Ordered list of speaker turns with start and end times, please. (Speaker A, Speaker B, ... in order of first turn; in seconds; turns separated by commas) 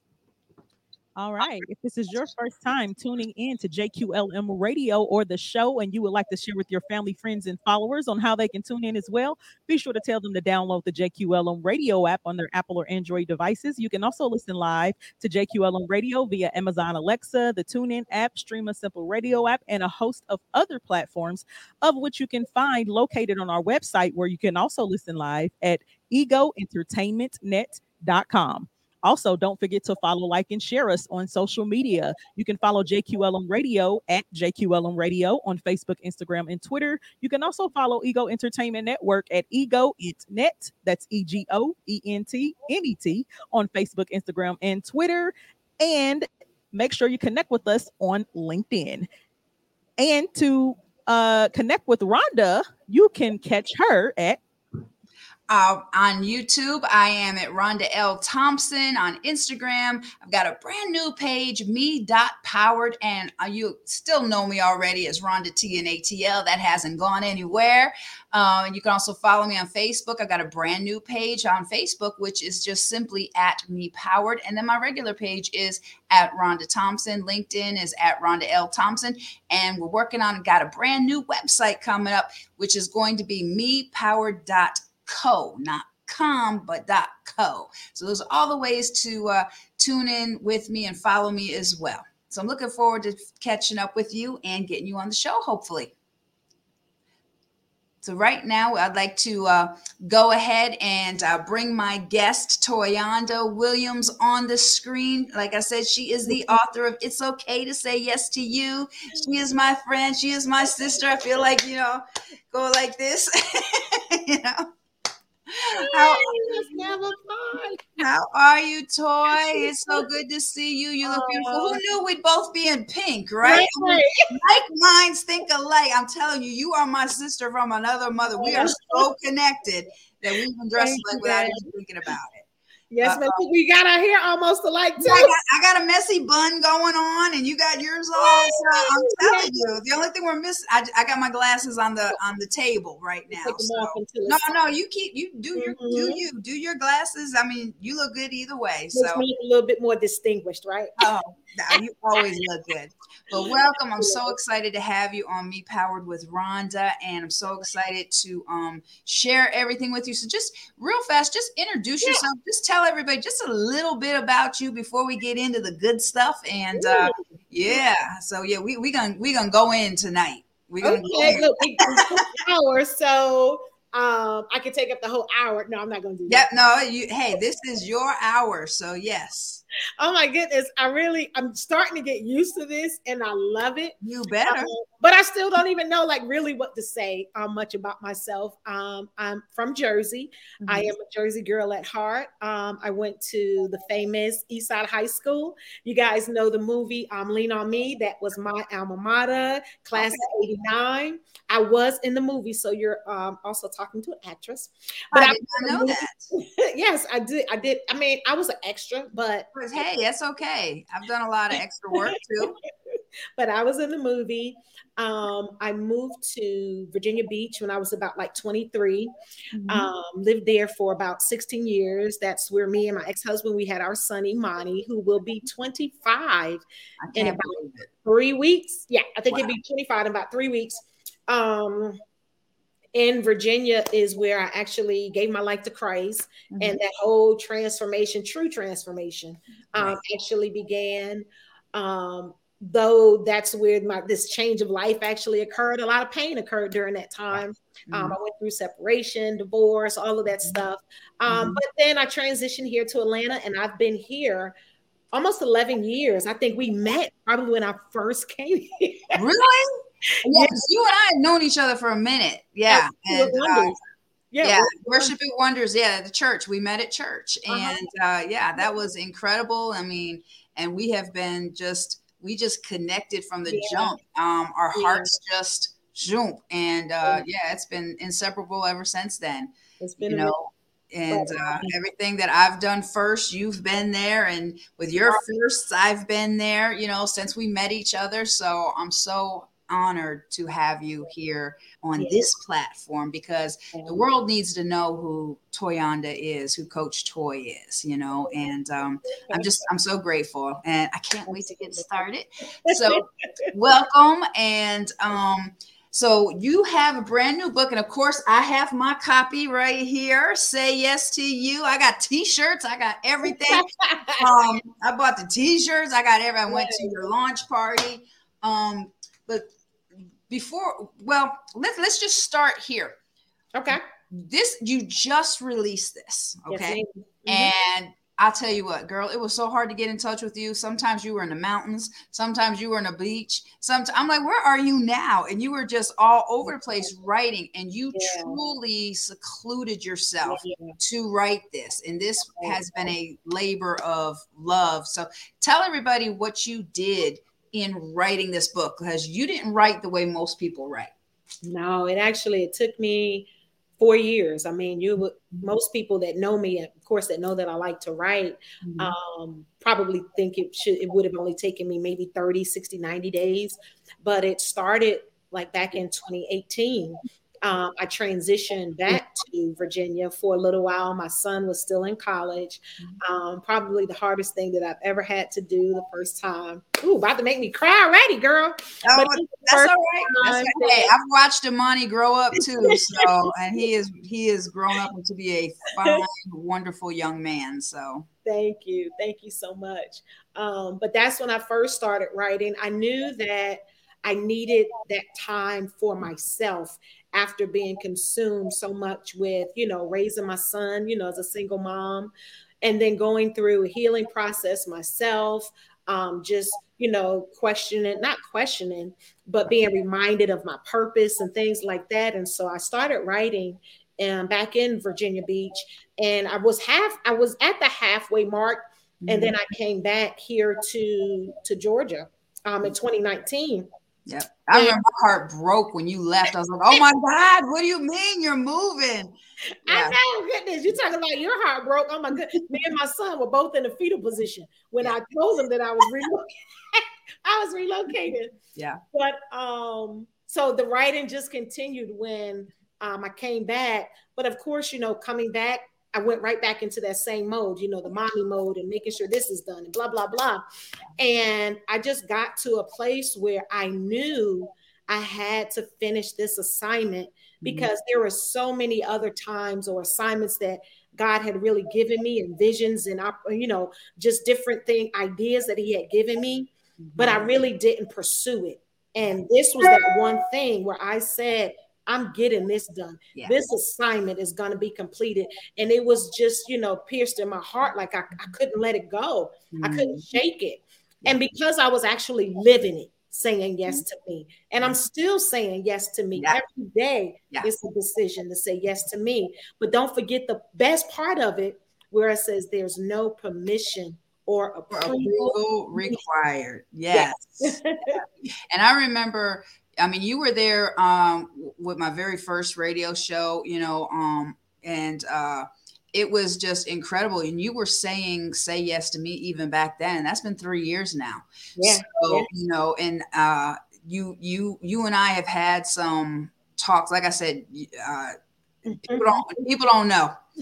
Speaker A: 1.1-49.1, Speaker A: 50.0-54.4, Speaker B: 55.5-95.9, Speaker B: 98.0-114.7, Speaker B: 115.5-116.7, Speaker C: 115.7-118.0, Speaker B: 118.0-132.4, Speaker C: 119.5-120.0, Speaker C: 121.0-121.8, Speaker C: 123.4-124.3, Speaker C: 128.4-129.1, Speaker C: 130.8-131.7, Speaker C: 132.9-135.3, Speaker B: 133.0-133.4, Speaker B: 135.0-149.2, Speaker C: 138.2-139.7, Speaker C: 143.3-144.4, Speaker C: 145.5-146.2, Speaker C: 148.9-150.9, Speaker B: 151.0-172.1, Speaker C: 154.0-154.3, Speaker C: 166.7-167.2, Speaker C: 170.8-176.4, Speaker B: 176.3-179.6, Speaker C: 180.0-209.5, Speaker B: 184.0-184.7, Speaker B: 190.6-190.9, Speaker B: 199.9-200.2, Speaker B: 205.1-206.3, Speaker B: 209.5-212.6, Speaker C: 213.4-219.1, Speaker B: 219.5-219.9, Speaker C: 219.7-226.6, Speaker B: 227.0-227.9, Speaker C: 227.2-232.0, Speaker C: 232.9-254.5, Speaker B: 236.5-236.8, Speaker B: 247.3-248.2, Speaker B: 251.3-251.6, Speaker C: 255.1-259.2, Speaker B: 259.1-263.8, Speaker C: 260.3-260.5, Speaker C: 262.7-263.8, Speaker C: 264.3-265.1, Speaker B: 264.4-279.5, Speaker C: 267.5-267.9, Speaker C: 273.5-273.9, Speaker C: 274.7-275.2, Speaker C: 279.8-280.4, Speaker B: 280.0-319.5, Speaker C: 281.1-281.7, Speaker C: 292.0-292.3, Speaker C: 293.7-294.0, Speaker C: 299.2-299.5, Speaker C: 301.3-301.9, Speaker C: 302.7-303.0, Speaker C: 313.3-314.2, Speaker C: 316.5-317.0, Speaker B: 320.3-322.9, Speaker C: 323.5-323.8, Speaker B: 323.7-350.9, Speaker C: 326.5-327.5, Speaker C: 337.9-338.4, Speaker C: 340.2-340.8, Speaker C: 351.4-353.3, Speaker C: 353.8-380.9, Speaker B: 358.6-358.9, Speaker B: 378.8-388.1, Speaker C: 382.7-383.0, Speaker C: 388.2-423.7, Speaker B: 419.0-419.3, Speaker B: 424.1-429.1, Speaker C: 424.5-424.8, Speaker C: 429.6-438.3, Speaker B: 429.7-429.9, Speaker B: 438.5-438.8, Speaker C: 438.9-450.4, Speaker C: 451.0-496.0, Speaker B: 457.4-457.7, Speaker B: 466.8-467.3, Speaker B: 479.5-480.0, Speaker B: 494.7-518.1, Speaker C: 496.9-498.0, Speaker C: 511.6-512.3, Speaker C: 518.6-519.4, Speaker B: 518.8-520.1